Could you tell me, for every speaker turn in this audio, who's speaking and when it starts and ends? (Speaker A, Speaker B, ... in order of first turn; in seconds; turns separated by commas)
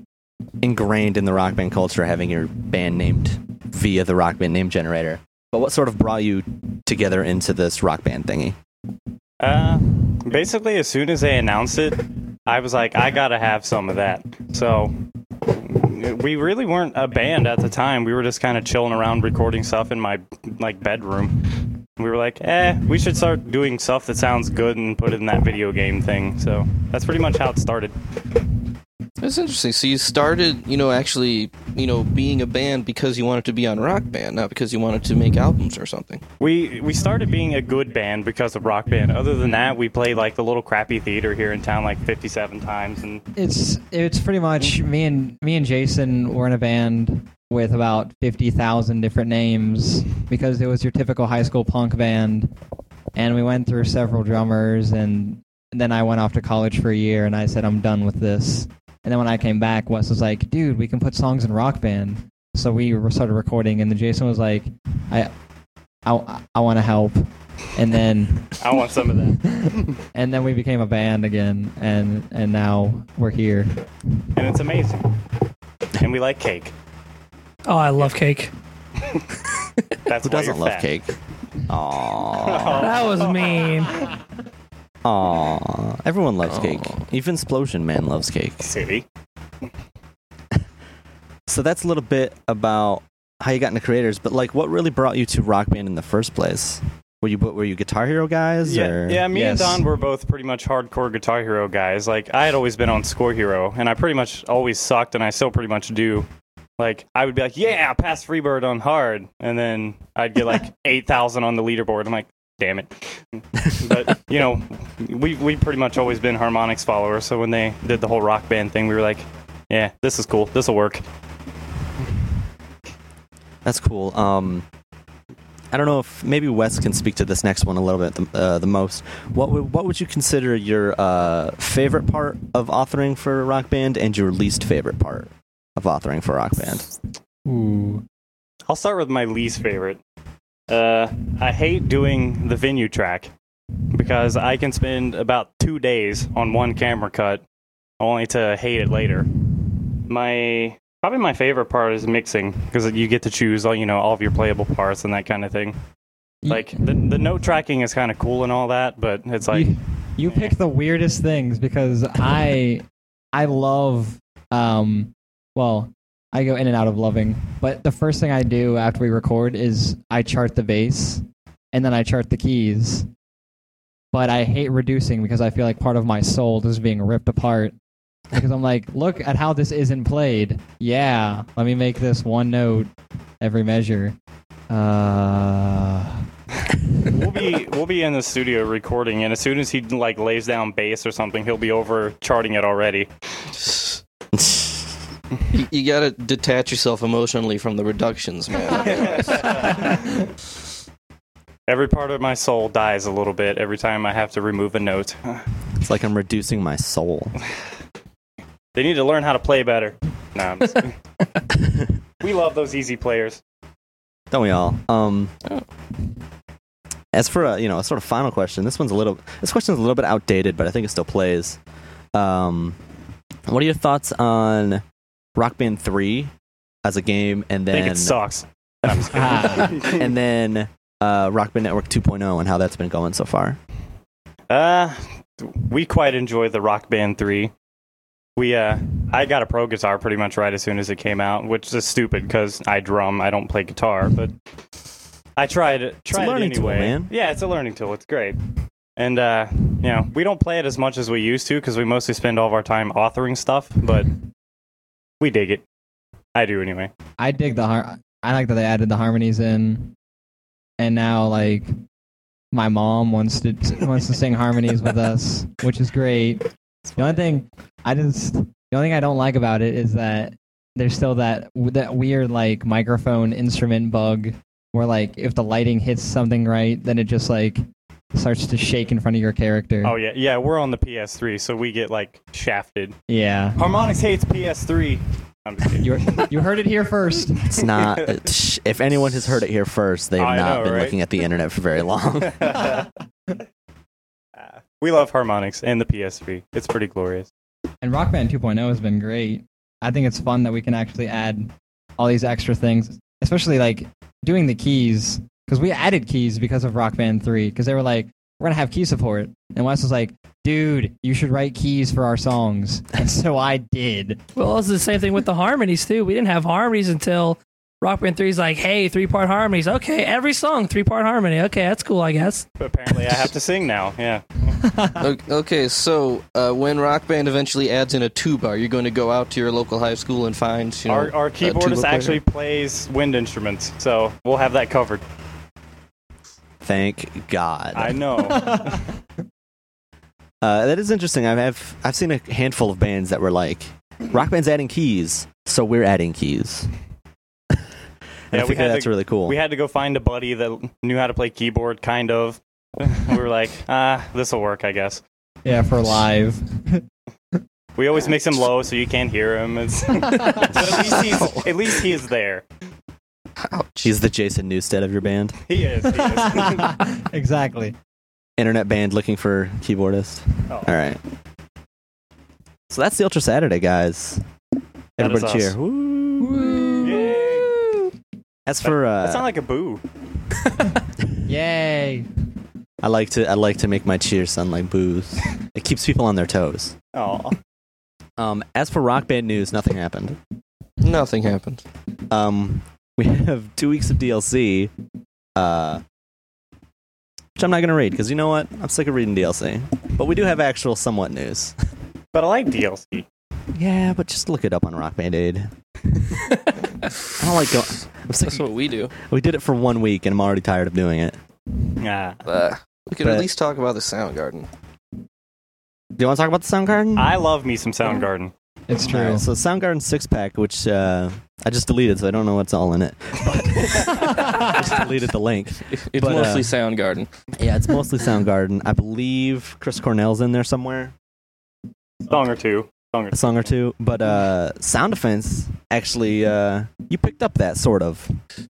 Speaker A: 0.6-8.6, Speaker B: 9.4-14.9, Speaker B: 15.5-21.4, Speaker B: 22.0-27.9, Speaker C: 29.2-36.2, Speaker B: 36.4-43.2, Speaker D: 43.4-52.5, Speaker D: 53.2-65.3, Speaker D: 66.0-68.5, Speaker B: 68.6-69.4, Speaker D: 69.5-73.7, Speaker B: 74.3-75.1, Speaker B: 76.0-76.7, Speaker E: 77.7-78.5, Speaker B: 80.1-80.9, Speaker A: 80.2-81.1, Speaker A: 81.7-82.9, Speaker B: 82.4-83.5, Speaker E: 82.7-84.1, Speaker A: 85.0-88.7, Speaker C: 86.5-87.0, Speaker B: 88.6-89.1, Speaker A: 91.5-99.3, Speaker B: 98.6-106.3, Speaker D: 99.3-99.8, Speaker B: 106.8-121.0, Speaker A: 123.7-124.7, Speaker A: 125.7-136.9, Speaker D: 137.5-138.0, Speaker B: 138.7-140.0, Speaker B: 140.7-143.3, Speaker B: 143.9-147.4, Speaker B: 148.0-149.3, Speaker B: 150.1-155.8, Speaker D: 156.4-157.1, Speaker B: 156.5-159.7, Speaker D: 159.5-173.1, Speaker B: 160.3-160.5, Speaker D: 174.1-177.8, Speaker D: 178.3-184.2, Speaker D: 184.7-186.2, Speaker B: 187.1-193.1, Speaker C: 193.5-194.0, Speaker A: 194.3-194.9, Speaker C: 195.5-199.9, Speaker B: 199.5-199.8, Speaker B: 201.7-205.4, Speaker A: 205.8-207.4, Speaker B: 208.7-210.9, Speaker A: 211.5-211.9, Speaker B: 212.2-213.4, Speaker A: 214.3-215.3, Speaker A: 217.1-221.6, Speaker A: 222.1-222.8, Speaker A: 223.5-224.8, Speaker A: 225.4-226.3, Speaker A: 226.8-228.2, Speaker B: 227.7-230.0, Speaker A: 228.9-233.6, Speaker D: 229.1-229.8, Speaker B: 234.5-237.5, Speaker B: 238.4-244.3, Speaker B: 245.4-248.4, Speaker A: 246.1-247.1, Speaker B: 249.0-254.1, Speaker B: 255.2-255.6, Speaker B: 256.4-256.9, Speaker D: 257.2-259.9, Speaker D: 260.8-261.7, Speaker D: 262.5-279.9, Speaker B: 279.8-282.9, Speaker D: 283.1-283.6, Speaker B: 283.6-286.2, Speaker D: 285.8-287.5, Speaker A: 287.4-292.7, Speaker B: 287.7-288.2, Speaker B: 290.2-290.9, Speaker B: 292.4-292.9, Speaker B: 294.8-297.3, Speaker D: 297.8-314.2, Speaker E: 314.4-322.4, Speaker B: 322.6-324.5, Speaker D: 324.6-325.0, Speaker C: 325.0-332.2, Speaker B: 330.9-335.0, Speaker A: 336.6-338.0, Speaker B: 337.8-338.7, Speaker D: 338.4-338.8, Speaker A: 340.4-346.7, Speaker A: 348.3-349.4, Speaker B: 348.3-355.0, Speaker D: 355.4-356.8, Speaker B: 357.8-362.4, Speaker D: 360.1-360.4, Speaker C: 363.4-364.0, Speaker A: 363.8-365.4, Speaker B: 365.5-366.8, Speaker D: 366.0-367.8, Speaker A: 368.4-371.0, Speaker A: 372.7-374.2, Speaker A: 375.0-377.2, Speaker B: 375.0-375.6, Speaker B: 376.8-377.5, Speaker A: 378.5-379.3, Speaker B: 378.6-379.8, Speaker D: 381.2-382.1, Speaker A: 382.8-386.8, Speaker B: 386.9-387.4, Speaker A: 388.2-390.2, Speaker C: 390.8-391.6, Speaker A: 392.1-394.7, Speaker A: 395.4-395.8, Speaker A: 397.4-401.6, Speaker B: 402.1-403.1, Speaker A: 403.5-406.4, Speaker C: 406.7-407.4, Speaker A: 407.2-411.2, Speaker C: 408.2-408.9, Speaker B: 411.8-412.2, Speaker C: 412.3-414.5, Speaker A: 413.0-413.3, Speaker A: 416.0-417.2, Speaker B: 417.0-418.3, Speaker D: 418.7-419.3, Speaker A: 418.8-426.5, Speaker C: 425.7-427.1, Speaker A: 427.4-430.9, Speaker B: 432.1-433.4, Speaker A: 433.1-438.1